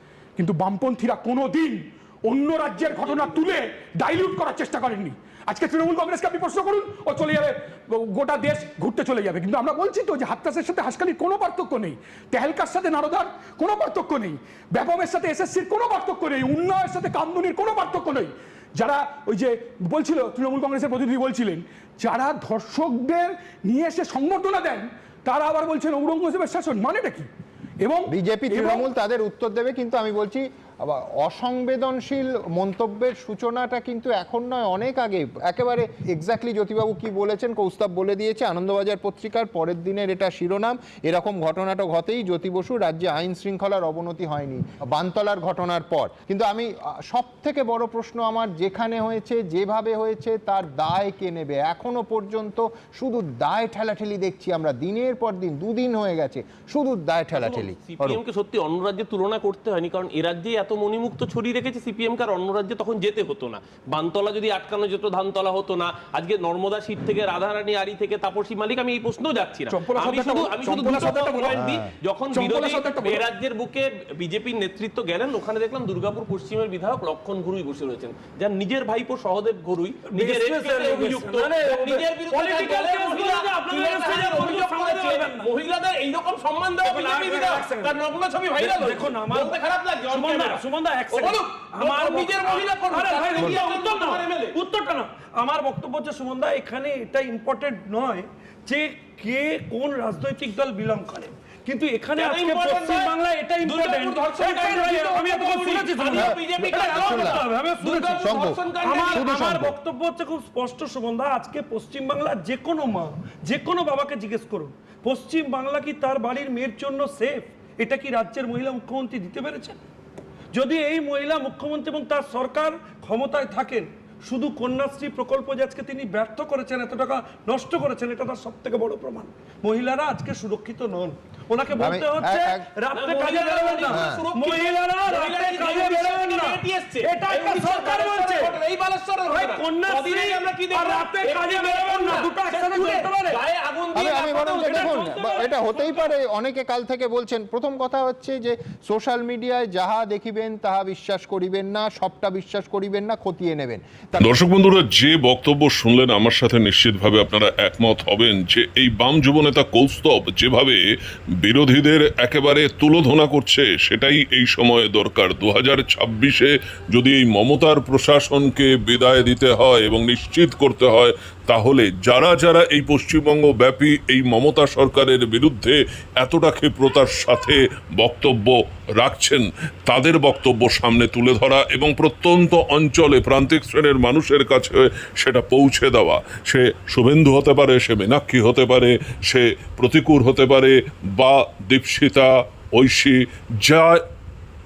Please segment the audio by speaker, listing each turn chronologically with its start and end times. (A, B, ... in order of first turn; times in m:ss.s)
0:00.4-0:27.3 A
0:27.8-0:28.9 A
0:28.1-0:58.2 B
0:57.3-1:34.6 C
1:09.7-1:11.6 A
1:11.5-1:11.9 B
1:12.3-1:13.2 A
1:20.1-1:25.5 D
1:26.8-1:28.0 D
1:28.5-1:59.8 D
1:42.2-1:49.5 C
1:46.1-1:46.4 B
1:46.9-1:47.4 B
1:48.2-1:49.8 B
2:00.5-2:18.6 D
2:11.8-2:12.7 B
2:12.9-2:26.0 C
2:13.9-2:14.2 B
2:19.3-2:23.4 D
2:23.9-2:34.3 B
2:34.2-2:40.8 E
2:41.4-3:14.0 E